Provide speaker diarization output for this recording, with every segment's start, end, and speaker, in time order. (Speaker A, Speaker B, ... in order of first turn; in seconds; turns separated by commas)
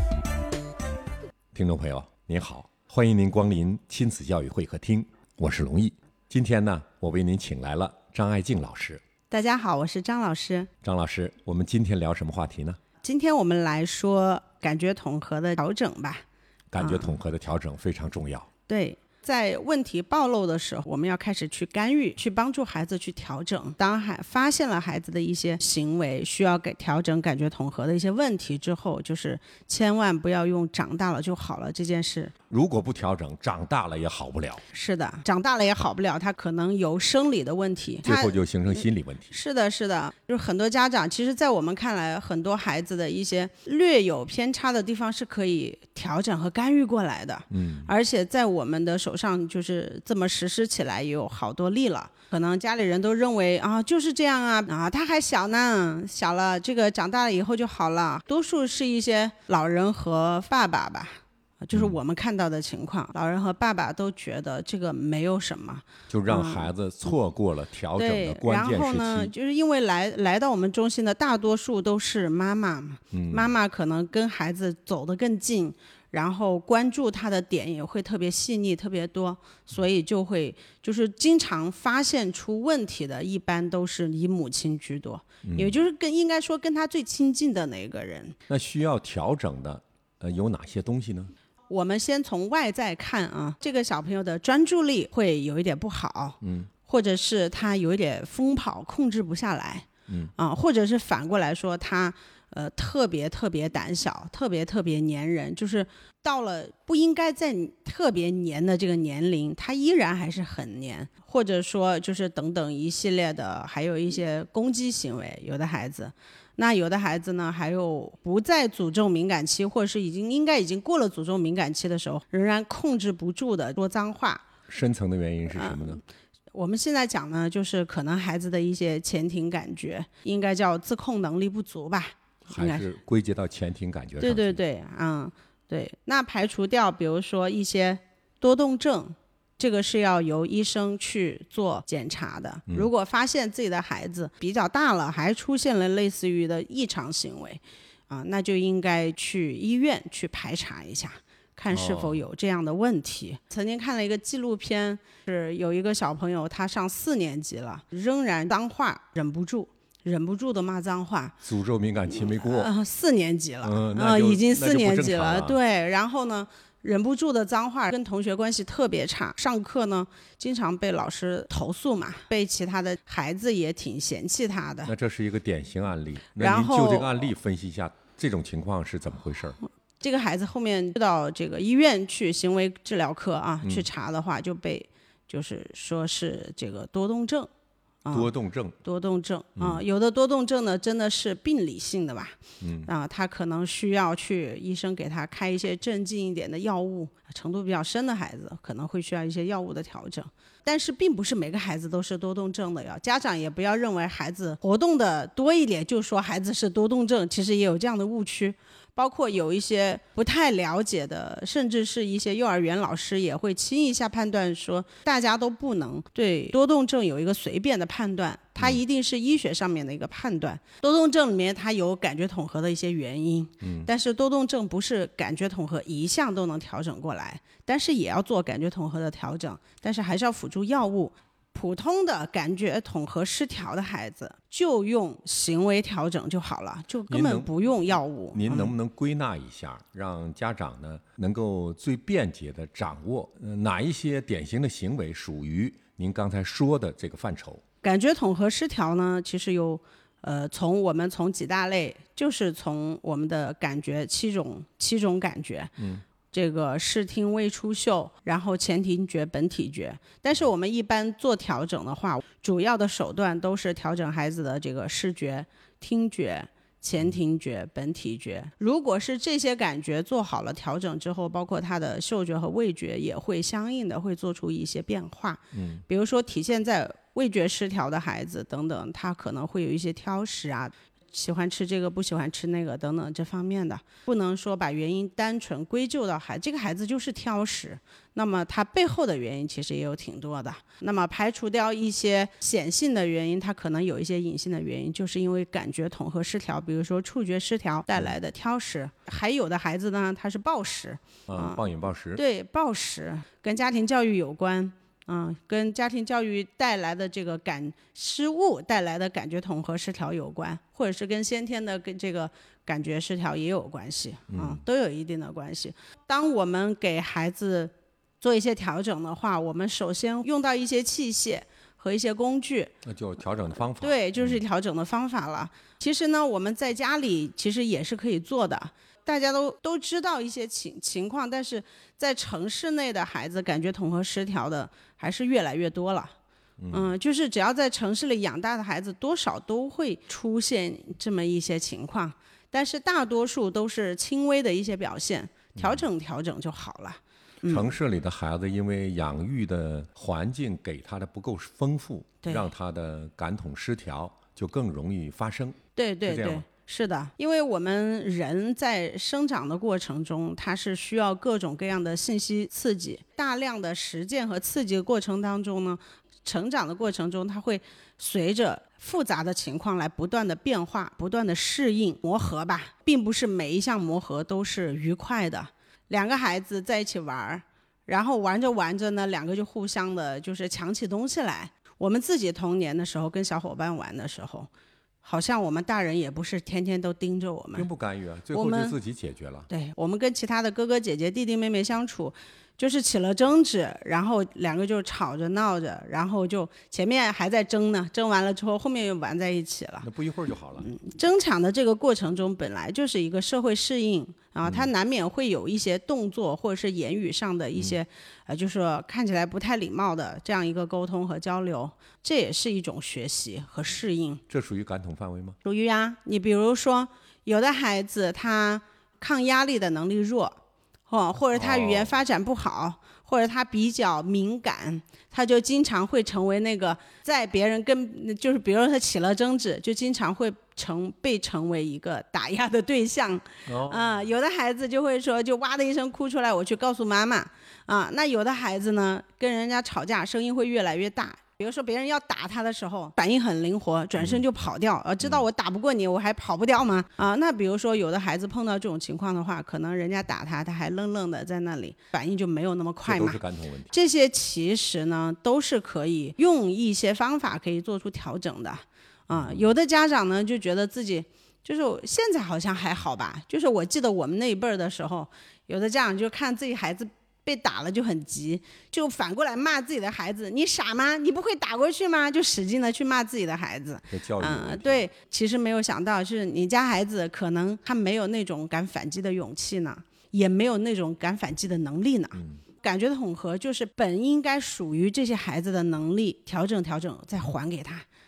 Speaker A: 1.5-9.0, Speaker B: 9.3-10.7, Speaker A: 10.8-12.8, Speaker B: 13.0-16.2, Speaker A: 16.7-18.5, Speaker B: 16.8-17.2, Speaker B: 18.7-32.3, Speaker A: 32.5-34.6, Speaker B: 34.7-66.7, Speaker A: 38.0-39.3, Speaker A: 47.5-47.9, Speaker A: 66.1-69.3, Speaker B: 68.0-88.4, Speaker A: 73.1-73.5, Speaker A: 85.5-85.8, Speaker A: 88.5-91.3, Speaker B: 91.7-99.9, Speaker A: 96.4-96.7, Speaker A: 100.1-100.3, Speaker B: 100.4-124.5, Speaker A: 124.7-126.0, Speaker B: 125.5-126.0, Speaker B: 126.5-132.9, Speaker A: 132.5-134.6, Speaker B: 134.2-161.4, Speaker A: 151.7-152.2, Speaker A: 161.4-162.7, Speaker B: 162.1-174.9, Speaker A: 163.6-165.6, Speaker A: 174.9-179.6, Speaker B: 176.4-177.3, Speaker B: 180.0-187.5, Speaker B: 188.1-188.3, Speaker A: 188.1-188.8, Speaker B: 188.8-238.7, Speaker A: 189.6-189.8, Speaker A: 192.6-192.9, Speaker A: 223.6-223.9, Speaker A: 237.1-237.5, Speaker A: 238.3-247.6, Speaker B: 247.8-255.7, Speaker A: 255.8-256.0, Speaker B: 256.3-301.6, Speaker A: 275.5-275.8, Speaker A: 301.3-302.2, Speaker B: 302.1-322.8, Speaker A: 314.3-314.6, Speaker A: 322.8-324.4, Speaker B: 323.7-336.1, Speaker A: 336.6-336.9, Speaker B: 336.7-347.7, Speaker A: 345.6-345.8, Speaker A: 347.5-356.4, Speaker B: 352.2-352.5, Speaker B: 355.8-384.5, Speaker B: 385.0-387.7, Speaker A: 387.5-389.5, Speaker B: 388.3-388.8, Speaker B: 389.5-399.9, Speaker A: 399.8-400.7, Speaker B: 400.6-414.2, Speaker A: 414.3-415.4, Speaker B: 415.4-453.2, Speaker A: 421.3-422.0, Speaker A: 433.5-434.1, Speaker A: 444.0-444.2, Speaker A: 452.9-453.7, Speaker B: 453.7-487.9, Speaker A: 459.1-459.4, Speaker A: 473.9-474.9, Speaker A: 482.2-482.4